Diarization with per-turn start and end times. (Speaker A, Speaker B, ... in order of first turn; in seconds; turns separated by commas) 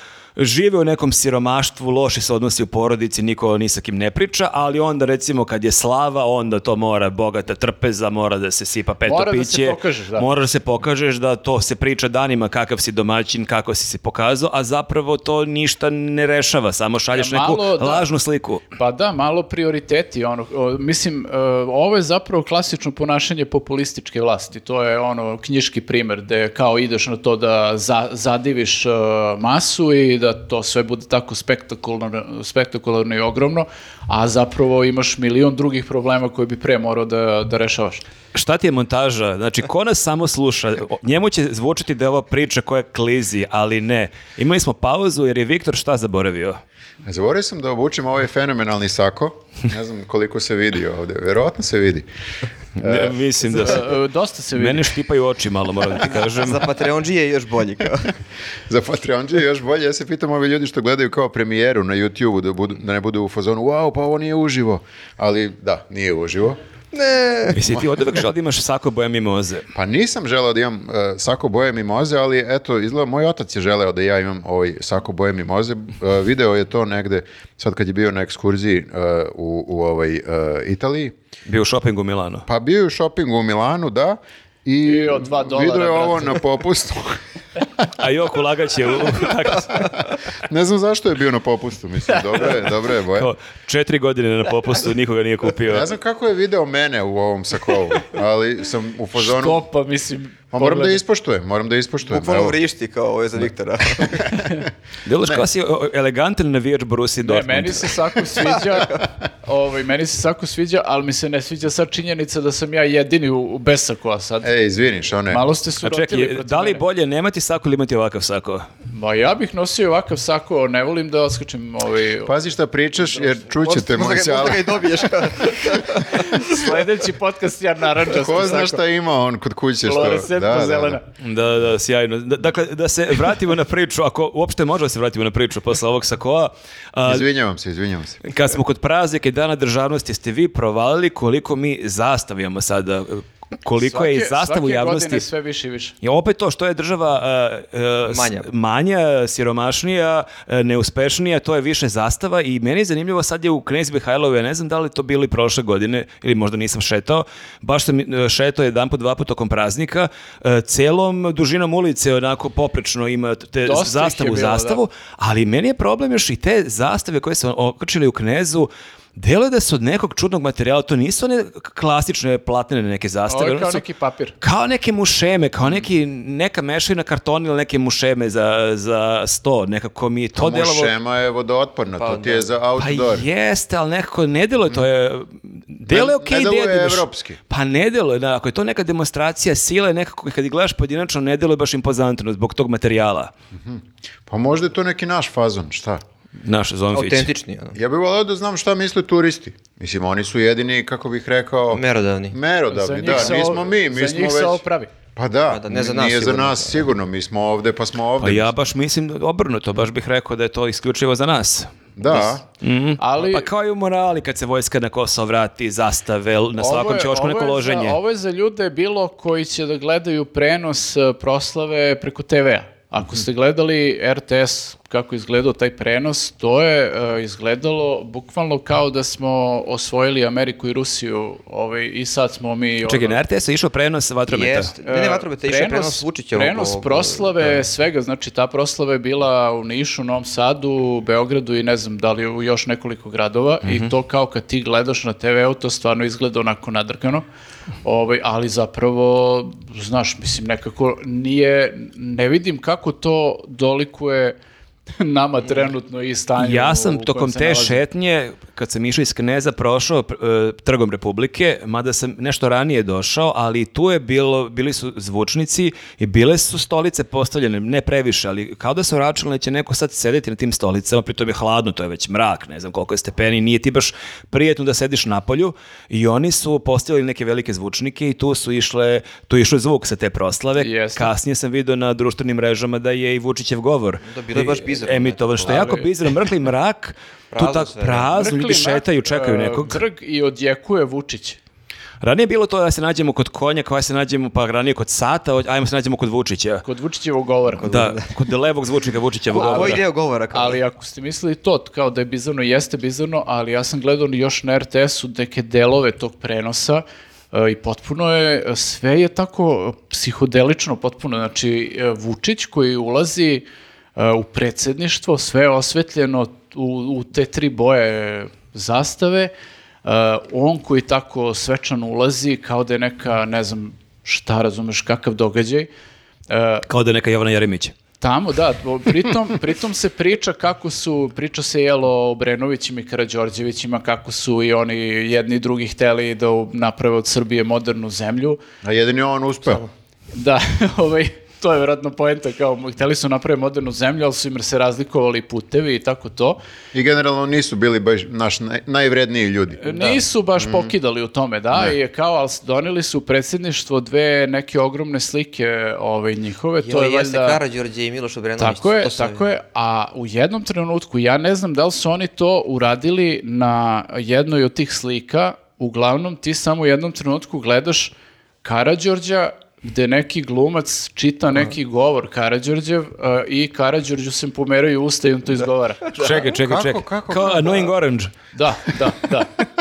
Speaker A: 0.3-18.6, Speaker B: 9.1-10.2, Speaker B: 17.1-18.1, Speaker B: 18.8-38.0, Speaker A: 38.3-46.6, Speaker C: 47.0-52.0, Speaker A: 52.8-54.0, Speaker C: 52.8-53.1, Speaker B: 53.5-54.9, Speaker A: 54.5-56.7, Speaker D: 56.1-58.1, Speaker C: 58.7-66.6, Speaker D: 66.9-67.6, Speaker A: 67.5-69.7, Speaker C: 69.7-81.1, Speaker A: 81.5-82.4, Speaker C: 82.5-87.2, Speaker B: 84.8-86.4, Speaker A: 88.0-90.0, Speaker C: 90.4-93.3, Speaker A: 93.1-95.9, Speaker C: 95.7-99.6, Speaker B: 99.2-101.0, Speaker C: 100.5-102.6, Speaker D: 102.1-104.4, Speaker C: 104.0-104.6, Speaker A: 105.0-108.0, Speaker B: 107.2-114.5, Speaker D: 108.4-109.0, Speaker C: 114.4-115.4, Speaker B: 115.3-116.8, Speaker A: 115.8-118.6, Speaker B: 118.9-122.3, Speaker C: 122.2-126.0, Speaker B: 123.0-123.5, Speaker D: 123.6-126.7, Speaker B: 126.2-128.8, Speaker C: 128.1-131.0, Speaker B: 129.8-131.0, Speaker A: 131.2-137.2, Speaker C: 137.0-138.2, Speaker A: 138.2-145.2, Speaker B: 143.8-145.9, Speaker A: 146.0-173.8, Speaker D: 148.1-148.5, Speaker B: 163.6-164.8, Speaker B: 173.3-174.3, Speaker A: 174.4-180.9, Speaker C: 180.3-183.2, Speaker D: 182.0-182.5, Speaker A: 182.8-193.3, Speaker C: 185.9-187.4, Speaker C: 193.6-196.0, Speaker A: 196.4-197.3, Speaker D: 196.9-197.8, Speaker C: 197.7-204.6, Speaker D: 201.7-202.3, Speaker B: 202.7-204.9, Speaker C: 205.2-208.5, Speaker D: 205.5-206.9, Speaker A: 208.2-211.7, Speaker C: 211.9-212.4, Speaker A: 212.6-218.0, Speaker B: 213.0-213.5, Speaker B: 216.6-233.2, Speaker A: 232.9-234.7, Speaker D: 234.3-237.6, Speaker B: 234.8-247.2, Speaker A: 243.6-243.9, Speaker B: 247.8-254.4, Speaker B: 255.0-257.8, Speaker A: 256.4-289.8, Speaker B: 280.6-281.1, Speaker D: 284.0-285.8, Speaker B: 285.5-285.9, Speaker D: 287.3-288.1, Speaker B: 288.1-291.4, Speaker A: 292.0-296.6, Speaker B: 296.6-297.8, Speaker D: 297.6-298.1, Speaker A: 297.6-299.8, Speaker D: 299.3-300.6, Speaker B: 299.3-319.3, Speaker B: 319.8-325.7, Speaker B: 326.3-326.6, Speaker A: 326.7-327.7, Speaker B: 328.0-338.4, Speaker C: 338.6-339.6, Speaker B: 340.1-346.4, Speaker C: 346.7-350.7, Speaker B: 349.6-357.4, Speaker D: 356.6-359.2, Speaker B: 358.4-376.3, Speaker A: 375.9-378.1, Speaker C: 376.4-377.7, Speaker B: 378.3-379.3